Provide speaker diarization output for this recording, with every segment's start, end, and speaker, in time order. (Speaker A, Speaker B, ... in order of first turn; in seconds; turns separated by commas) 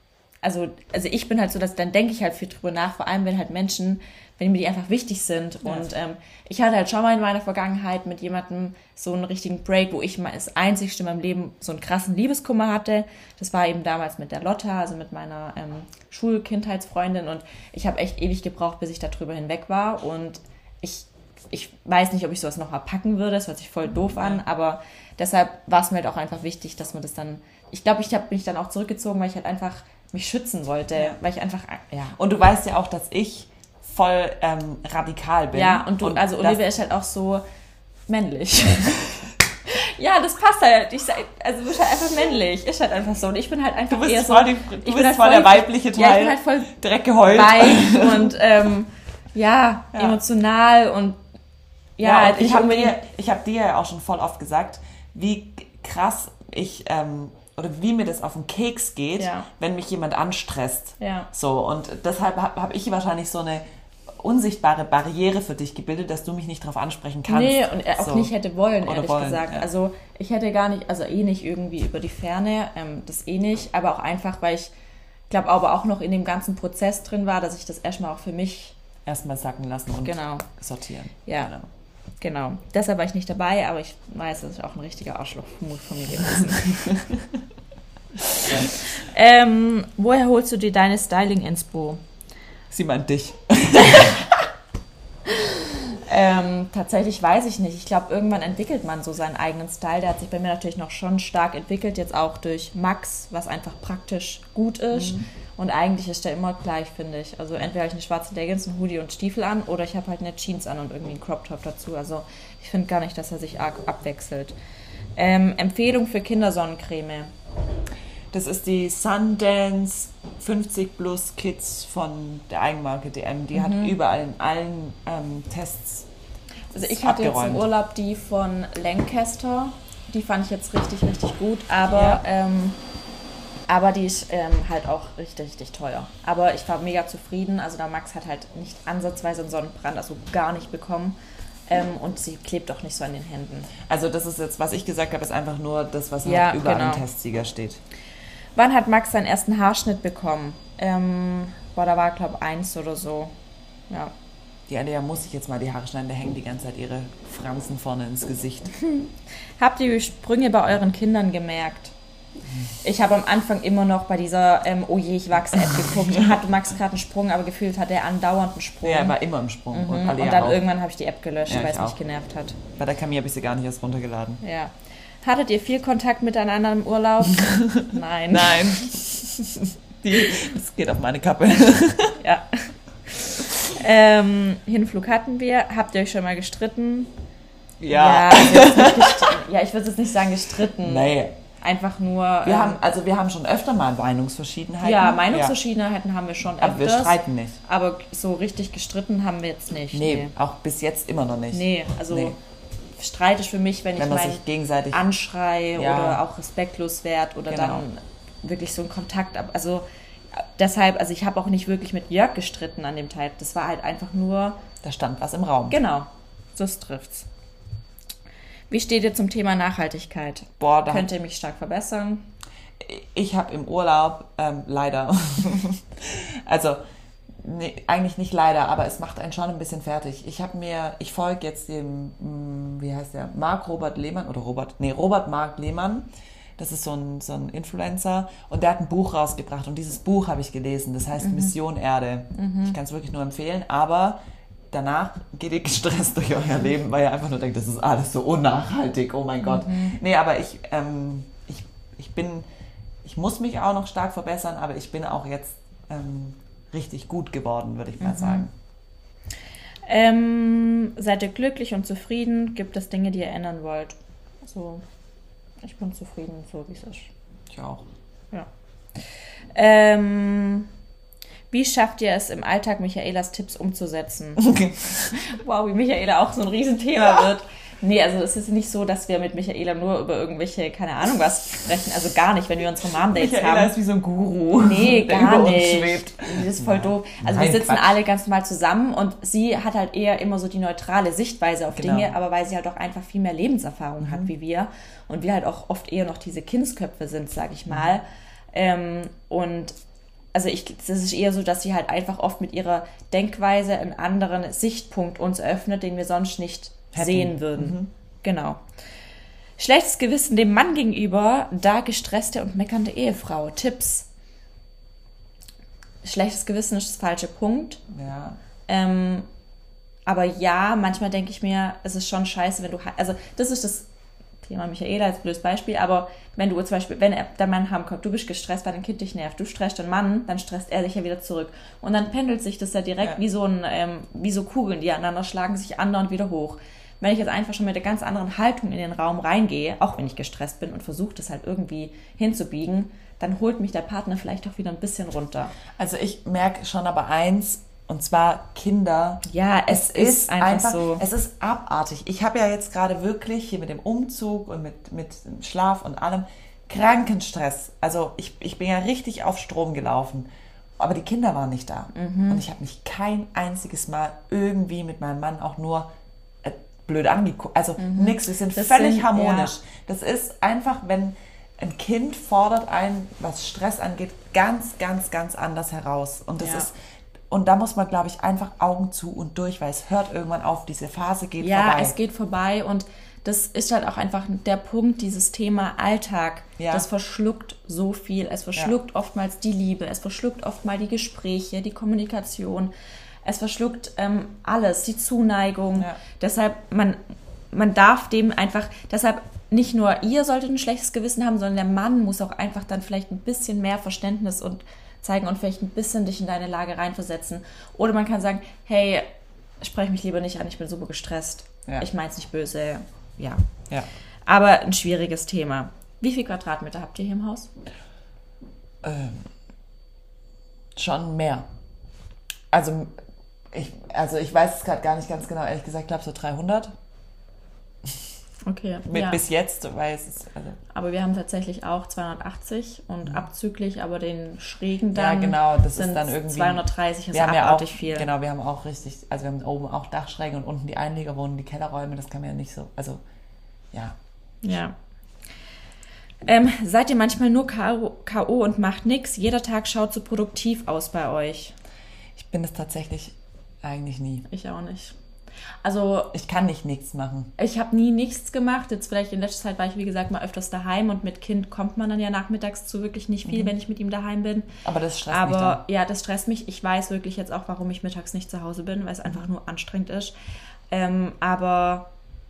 Speaker A: 0.4-32.1, Speaker B: 24.1-24.4, Speaker B: 32.1-36.6, Speaker A: 35.5-37.4, Speaker A: 38.1-51.2, Speaker B: 43.9-48.3, Speaker B: 49.9-50.2, Speaker A: 52.0-53.0, Speaker B: 52.0-68.3, Speaker A: 59.2-59.5, Speaker A: 61.0-61.3, Speaker A: 67.3-74.7, Speaker B: 68.8-69.7, Speaker A: 75.3-78.8, Speaker B: 79.0-81.7, Speaker A: 80.0-80.5, Speaker A: 81.2-81.6, Speaker A: 82.2-87.1, Speaker A: 88.3-92.0, Speaker B: 88.4-88.7, Speaker B: 92.7-94.3, Speaker A: 93.7-94.3, Speaker A: 95.3-114.5, Speaker B: 104.9-105.2, Speaker A: 115.2-117.3, Speaker B: 118.3-126.1, Speaker A: 123.5-123.9, Speaker A: 126.7-132.8, Speaker B: 126.8-127.7, Speaker B: 131.9-132.2, Speaker A: 133.7-141.2, Speaker A: 141.7-143.7, Speaker B: 143.8-147.8, Speaker A: 146.2-147.0, Speaker A: 148.6-153.3, Speaker B: 154.7-158.7, Speaker A: 158.8-161.9, Speaker A: 162.8-169.2, Speaker B: 165.6-166.4, Speaker B: 168.8-170.6, Speaker A: 169.7-172.6, Speaker B: 171.5-172.0, Speaker B: 172.8-174.4, Speaker A: 174.4-179.2, Speaker B: 177.4-182.2, Speaker A: 182.2-187.1, Speaker B: 187.8-189.4, Speaker A: 187.9-192.8, Speaker B: 190.8-191.3, Speaker B: 192.4-195.5, Speaker A: 194.8-200.3, Speaker B: 196.6-197.6, Speaker B: 199.9-202.3, Speaker A: 201.5-202.4, Speaker A: 203.0-214.6, Speaker B: 204.0-205.0, Speaker B: 205.8-206.2, Speaker B: 207.5-207.8, Speaker B: 214.8-215.8, Speaker A: 215.7-217.3, Speaker A: 218.7-222.3, Speaker B: 220.6-221.1, Speaker B: 222.8-226.8, Speaker B: 227.4-244.2, Speaker A: 241.2-241.6, Speaker A: 242.3-242.8, Speaker B: 244.7-252.5, Speaker A: 249.4-249.9, Speaker B: 253.0-258.5, Speaker A: 258.0-258.5, Speaker A: 259.8-264.8, Speaker A: 265.6-267.1, Speaker B: 267.5-267.8, Speaker A: 269.5-270.7, Speaker A: 271.5-274.5, Speaker B: 274.4-275.1, Speaker A: 275.1-283.7, Speaker B: 283.1-288.0, Speaker A: 284.6-299.8, Speaker B: 291.7-292.1, Speaker B: 294.0-294.3, Speaker A: 300.3-308.6, Speaker B: 306.9-307.9, Speaker A: 309.6-314.1, Speaker A: 316.0-317.8, Speaker B: 317.9-318.4, Speaker A: 318.7-319.3, Speaker A: 320.1-323.9, Speaker A: 324.4-345.6, Speaker B: 345.8-360.3, Speaker A: 349.2-351.0, Speaker B: 360.8-365.9, Speaker A: 361.9-362.4, Speaker B: 366.4-376.7, Speaker A: 367.8-369.5, Speaker A: 376.4-376.7, Speaker B: 377.3-381.9, Speaker A: 381.4-392.7, Speaker B: 386.6-386.9, Speaker A: 393.2-397.0, Speaker A: 397.5-409.1, Speaker A: 409.6-413.4, Speaker A: 414.3-417.5, Speaker B: 418.8-419.3, Speaker B: 420.8-421.5, Speaker B: 422.5-422.9, Speaker B: 423.5-426.7, Speaker A: 428.4-429.2, Speaker B: 428.9-430.6, Speaker A: 430.7-438.1, Speaker B: 434.9-443.0, Speaker B: 443.7-444.0, Speaker A: 444.4-444.7, Speaker A: 446.2-451.6, Speaker B: 452.1-454.2, Speaker A: 454.3-455.0, Speaker A: 455.6-456.1, Speaker B: 456.1-457.3, Speaker A: 457.4-464.5, Speaker B: 463.3-463.5, Speaker B: 464.6-465.6, Speaker A: 465.1-470.1, Speaker A: 470.7-471.9